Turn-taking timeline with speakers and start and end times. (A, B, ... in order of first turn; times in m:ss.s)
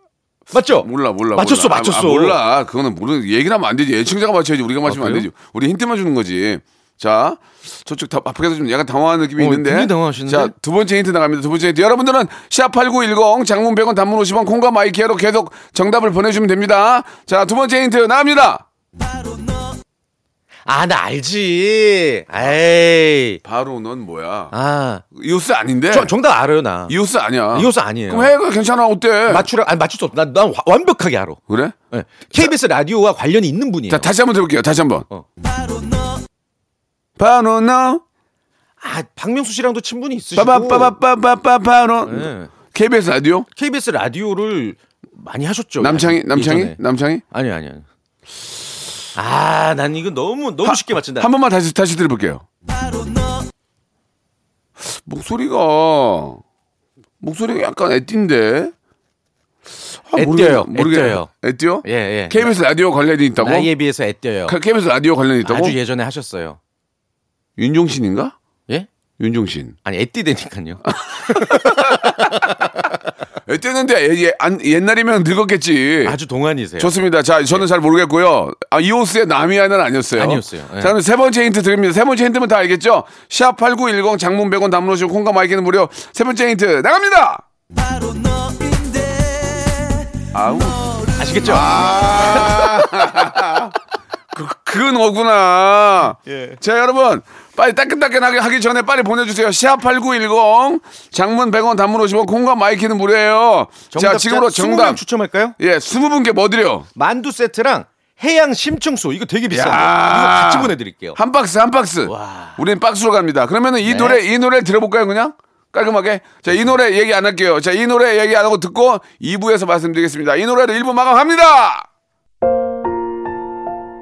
0:00.5-0:02.4 A
0:00.6-0:18.6 B
0:04.9-0:05.3 A
0:09.4-0:10.5 A
0:20.7-0:23.4 A
0:23.4-0:24.5 B
0:24.5-0:25.0 A
0:25.1-0:26.1 B
0:25.9-0:27.0 A
0:26.9-0:29.5 B
0:27.5-0:28.3 A
0:29.3-0:31.4 A
0:31.5-0:31.8 B
0:31.9-0:34.1 A
0:33.9-0:35.1 B
0:37.2-0:38.0 B
0:38.8-0:41.0 A
0:40.4-0:43.5 B
0:42.0-0:42.5 A
0:43.6-0:46.8 A
0:45.8-0:47.2 B
0:47.3-0:47.9 A
0:49.2-0:51.3 A
0:50.6-0:52.5 B
0:54.8-0:56.4 B
0:57.2-0:58.7 B
1:00.0-1:03.7 B
1:00.1-1:01.3 A
1:01.8-1:02.5 A
1:03.4-1:04.6 A
1:04.5-1:05.8 B
1:05.4-1:06.6 A
1:07.6-1:08.4 B
1:09.2-1:09.8 B
1:09.8-1:12.9 A
1:10.9-1:12.5 B
1:13.5-1:16.2 B
1:16.0-1:16.9 A
1:16.8-1:27.4 B
1:20.2-1:21.0 A
1:30.3-1:30.8 B
1:31.2-1:32.6 A
1:31.4-1:33.8 B
1:34.3-1:45.0 B
1:36.3-1:36.6 A
1:43.9-1:45.6 A
1:45.6-1:46.9 B
1:47.0-1:51.2 A
1:49.5-2:01.9 B
1:52.1-1:52.6 A
1:53.8-1:54.2 A